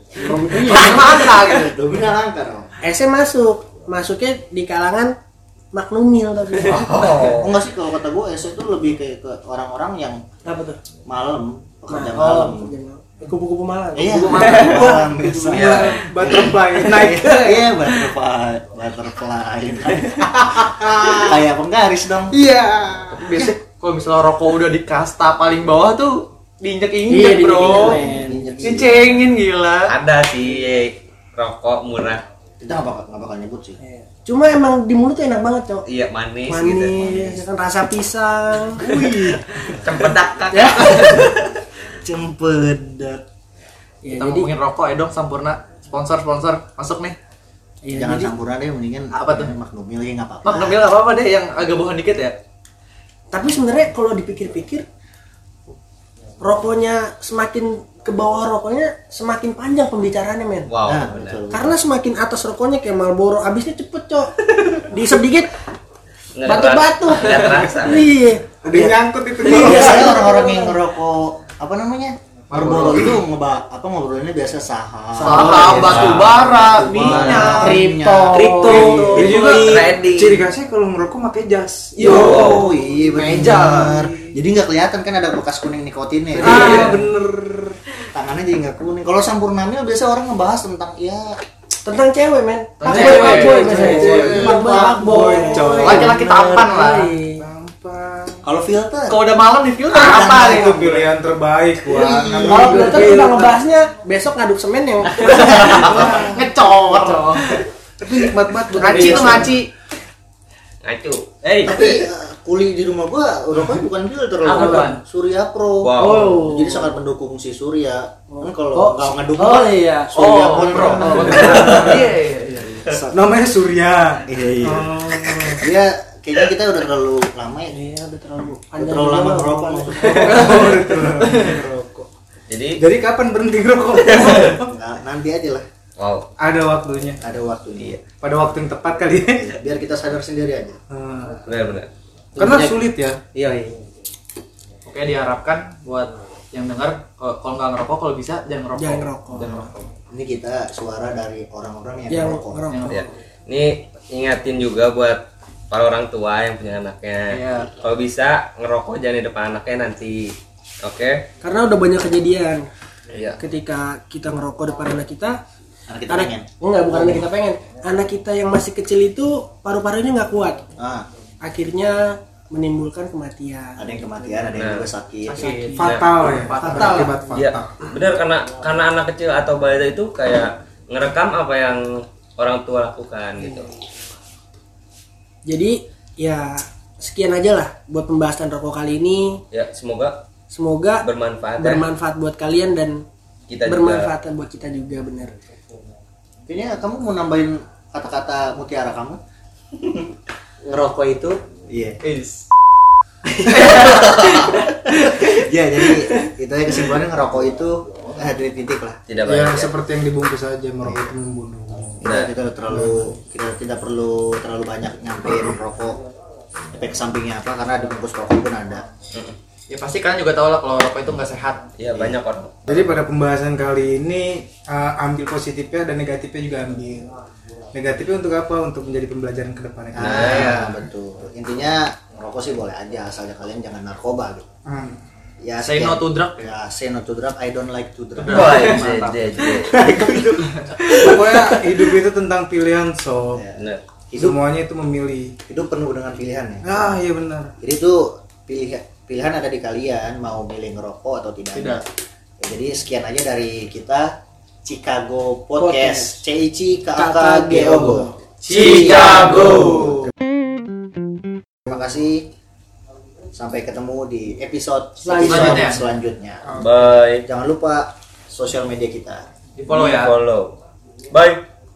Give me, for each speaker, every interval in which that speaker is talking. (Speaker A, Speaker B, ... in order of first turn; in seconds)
Speaker A: 0.2-1.1, 2.8-5.2, 5.7-7.3, 10.4-10.8, 11.9-14.9, 27.1-28.7, 33.8-35.9, 36.5-38.9, 40.5-41.2, 44.0-44.5, 47.8-48.3, 53.3-54.9, 56.4-60.7, 61.5-65.5, 66.5-68.5, 69.4-70.8, 76.8-79.0, 91.8-97.5, 102.5-106.0, 107.0-107.3, 109.0-109.5, 114.6-114.9, 116.0-117.0, 118.3-121.6, 127.7-130.9, 148.8-149.7, 152.1-153.0, 161.4-162.7, 163.4-165.4, 166.1-170.6, 171.4-174.6, 175.3-176.0, 176.6-177.2, 185.5-189.4, 190.5-193.0, 193.7-195.3, 239.8-240.4, 255.6-256.2, 257.0-259.2, 265.0-265.8
Speaker B: 0.4-2.7, 7.2-10.2, 11.1-12.7, 13.9-22.4, 23.3-23.6, 27.6-29.2, 32.6-33.8, 38.8-40.1, 40.6-41.4, 42.0-43.2, 47.9-50.9, 60.9-61.8, 68.7-78.4, 82.0-86.9, 88.1-91.4, 93.8-94.8, 98.4-99.3, 99.9-100.8, 101.8-103.2, 105.6-106.5, 111.6-122.0, 122.8-123.1, 124.3-127.8, 128.8-130.3, 134.4-135.7, 137.2-138.0, 139.3-140.8, 150.1-152.7, 165.9-167.3, 170.8-171.1, 173.8-175.5, 196.5-199.2, 201.7-202.0, 203.5-209.0, 212.0-216.0, 216.7-218.8, 221.9-222.2, 229.9-234.5, 235.4-238.9, 243.3-244.4, 245.5-246.9, 247.6-251.8, 252.4-254.1, 254.7-259.4, 261.7-262.2, 263.4-266.5, 267.2-269.2
Speaker C: 0.6-1.7, 23.1-28.0, 28.6-29.9, 44.1-47.2, 49.1-49.5, 50.5-52.4, 72.5-73.2, 75.2-77.0, 82.0-82.4, 83.3-83.9, 86.5-87.0, 92.8-94.4, 95.7-97.2, 99.1-101.1, 105.1-107.6, 108.7-109.7, 111.4-111.8, 114.4-115.0, 120.2-122.9, 130.3-130.6, 144.9-149.8, 152.7-153.1, 157.3-157.7, 175.3-177.1, 219.7-221.6, 230.3-230.8, 235.6-236.4, 238.2-239.2, 251.5-251.8, 258.5-259.9, 265.2-265.8, 269.6-270.1
Speaker D: 6.6-7.5, 15.5-16.0, 29.9-32.2, 35.9-37.3, 39.9-41.2, 60.7-61.4, 66.4-68.1, 75.8-76.3, 77.0-77.7, 79.6-80.4, 82.2-82.7, 110.8-111.2, 115.8-116.3, 132.5-132.8, 134.1-134.4, 136.0-136.2, 141.5-141.9, 152.9-155.2, 155.7-160.3, 160.8-161.2, 163.1-163.4, 174.6-174.9, 177.3-181.8, 182.4-183.7, 189.5-190.2, 191.0-191.8, 193.5-194.1, 209.1-209.7, 212.1-212.3, 221.8-222.6, 230.0-230.5, 238.3-239.7, 266.6-267.2, 269.7-270.5, 271.1-271.4
Speaker E: 14.1-14.9, 75.2-75.9, 77.2-77.7, 78.3-80.0, 93.7-96.3, 142.4-143.8, 200.6-201.4, 203.6-205.2
Speaker F: 14.7-17.7, 20.8-21.4, 22.4-23.3, 68.6-70.2, 75.2-76.1, 78.6-84.3, 86.4-87.8, 92.9-96.0, 97.3-98.4, 100.0-103.6, 105.8-107.1, 108.0-109.6, 121.2-122.1, 123.1-125.6, 130.0-132.1, 132.8-134.7, 136.4-137.2, 138.0-139.5, 140.9-141.4, 142.4-143.2, 175.7-177.8, 209.2-212.1, 212.7-213.0, 222.7-227.1, 227.7-230.4, 234.7-235.0, 240.4-243.4, 244.2-245.4, 246.6-247.5, 266.5-267.0